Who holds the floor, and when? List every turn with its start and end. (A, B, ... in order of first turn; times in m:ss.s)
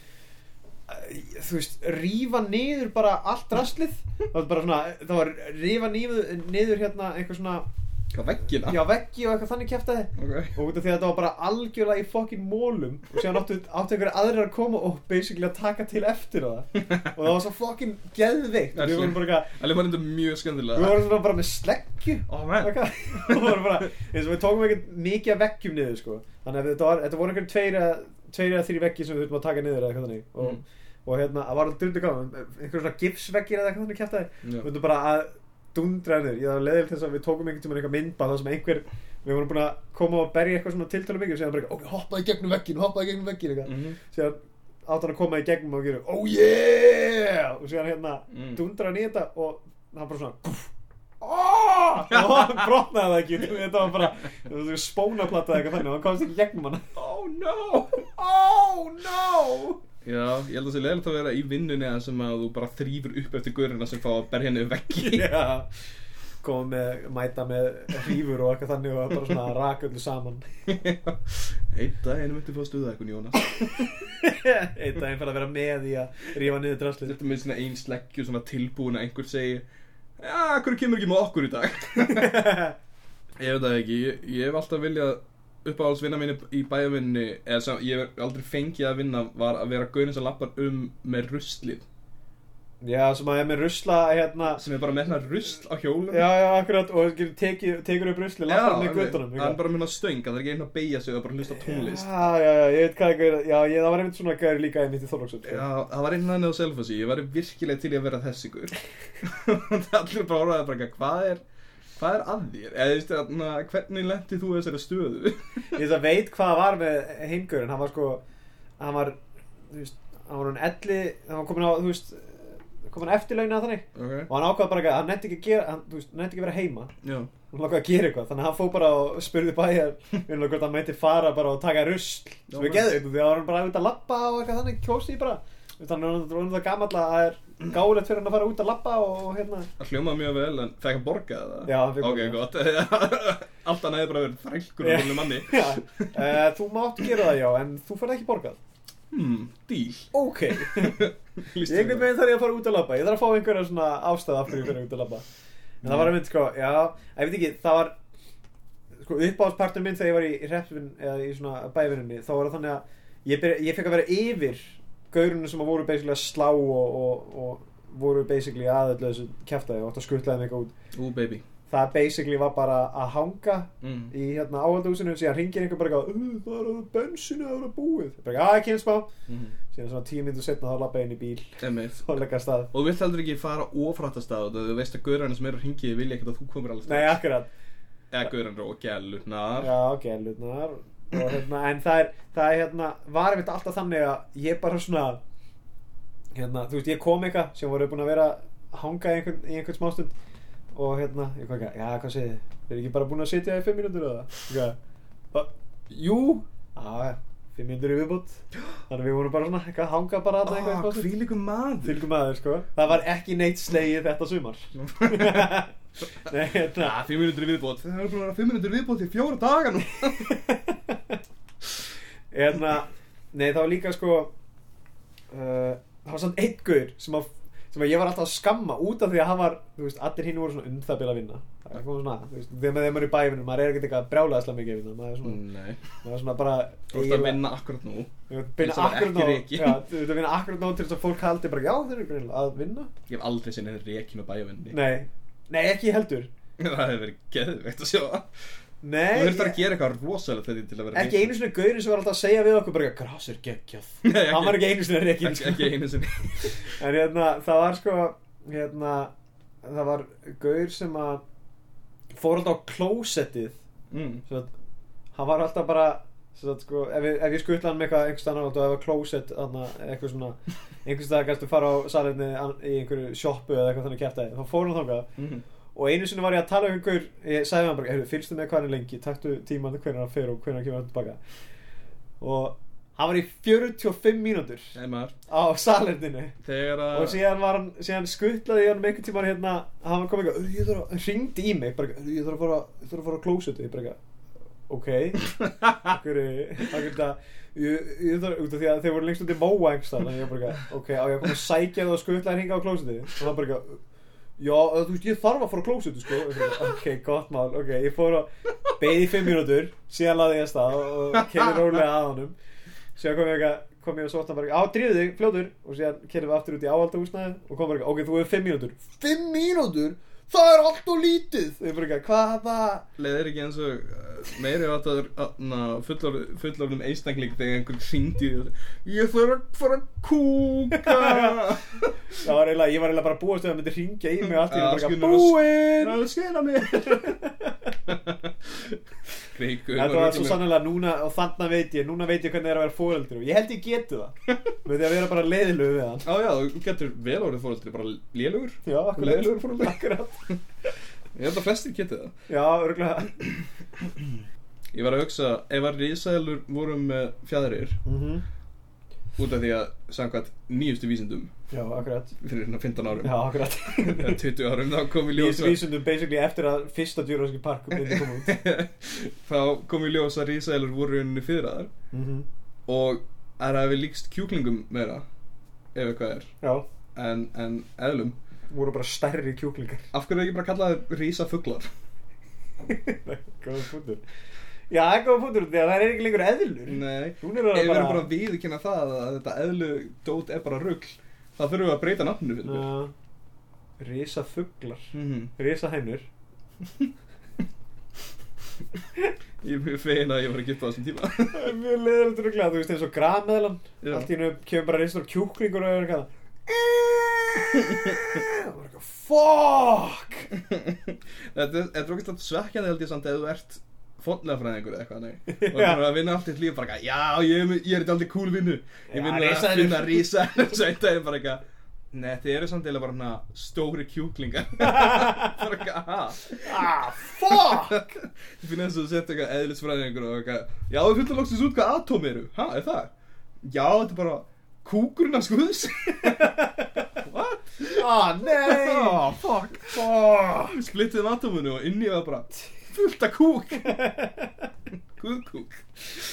0:00.9-0:07.6 A
0:08.1-0:08.8 B
0:08.6-0:19.5 A
0:10.2-0:10.6 B
0:18.7-0:21.0 B
0:20.8-0:56.9 A
0:22.3-0:23.8 B
0:43.6-0:44.0 B
0:48.3-0:48.6 B
0:52.1-0:52.7 B
0:56.9-0:58.1 B
0:58.2-0:59.8 A
1:00.0-1:05.3 B
1:04.9-1:05.7 A
1:06.4-1:10.4 A
1:10.7-1:14.0 B
1:14.2-1:17.2 A
1:17.0-1:19.6 B
1:20.2-1:22.6 B
1:22.2-1:22.7 A
1:23.4-1:31.9 B
1:32.8-1:34.6 A
1:34.5-1:36.3 B
1:36.1-1:39.6 A
1:38.4-1:42.1 B
1:41.5-1:45.6 A
1:45.4-1:51.4 B
1:52.0-1:55.8 B
1:55.7-1:58.2 A
1:58.8-1:59.2 A
1:59.7-2:06.9 A
2:03.9-2:04.3 B
2:07.0-2:07.3 B
2:07.5-2:19.7 A
2:12.5-2:13.0 B
2:19.8-2:26.2 B
2:21.6-2:22.4 A
2:24.8-2:28.6 A
2:29.1-2:32.1 B
2:30.1-2:31.0 A
2:31.6-2:35.2 A
2:35.8-2:37.9 A
2:35.8-2:36.1 B
2:39.0-2:50.7 A
2:50.9-2:51.4 B
2:51.7-2:59.1 A
2:53.8-2:54.1 B
2:59.3-2:59.6 B
2:59.7-3:02.7 A
3:01.6-3:02.1 B
3:02.7-3:07.2 B
3:06.9-3:07.5 A
3:08.1-3:09.7 B
3:09.6-3:15.2 A
3:16.3-3:20.1 A
3:20.7-3:24.8 A
3:25.9-3:26.4 B
3:26.7-3:31.1 A
3:30.4-3:32.0 B
3:31.8-3:37.0 A
3:34.7-3:35.6 B
3:36.8-3:40.3 B
3:40.2-3:41.2 A
3:42.3-3:44.3 A
3:45.3-3:55.4 A
3:55.2-3:55.8 B
3:56.0-3:57.4 A
3:56.9-3:59.8 B
3:58.3-4:02.9 A
4:03.1-4:04.8 B
4:04.7-4:06.3 A
4:06.6-4:08.3 B
4:08.8-4:09.6 A
4:09.1-4:11.3 B
4:10.9-4:15.7 A
4:14.0-4:16.6 B
4:16.4-4:19.1 A
4:19.6-4:21.2 A
4:22.1-4:23.6 A
4:23.9-4:24.2 B
4:25.1-4:35.1 A
4:35.2-4:35.4 B
4:35.7-4:41.2 A
4:42.2-4:44.8 A
4:44.7-4:45.1 B
4:45.3-4:46.4 A
4:46.4-4:47.2 B
4:46.9-4:54.0 A
4:54.7-4:55.3 A
4:55.8-5:03.8 A
5:04.4-5:12.4 A
5:11.1-5:11.8 B
5:13.0-5:22.9 A
5:23.0-5:31.9 B
5:30.7-5:31.4 A
5:32.2-5:36.0 A
5:34.2-5:37.2 B
5:36.8-5:37.7 A
5:37.9-5:40.5 B
5:39.7-5:46.0 A
5:46.0-5:50.4 B
5:48.6-5:50.2 A
5:51.1-5:52.1 B
5:52.3-5:53.2 A
5:54.7-5:57.8 B
5:57.9-5:58.2 A
5:59.2-6:01.3 B
6:01.5-6:02.1 A
6:02.2-6:05.6 B
6:03.0-6:04.2 A
6:05.1-6:08.4 A
6:07.7-6:11.7 B
6:11.9-6:12.2 A
6:12.7-6:15.0 B
6:15.7-6:16.3 B
6:16.9-6:18.2 B
6:18.5-6:19.9 A
6:19.9-6:21.7 B
6:22.7-6:24.0 A
6:24.7-6:28.1 A
6:26.7-6:32.6 B
6:32.4-6:32.9 A
6:33.8-6:36.1 A
6:34.9-6:35.3 B
6:39.4-6:41.5 B
6:41.3-6:50.3 A
6:43.8-6:44.1 B
6:50.3-7:16.4 B
6:55.3-6:55.8 A
6:58.9-7:00.1 A
7:04.7-7:05.4 A
7:06.4-7:07.9 A
7:16.0-7:16.8 A
7:16.9-7:19.8 B
7:17.7-7:20.6 A
7:20.4-7:23.8 B
7:23.6-7:24.5 A
7:25.0-7:25.6 B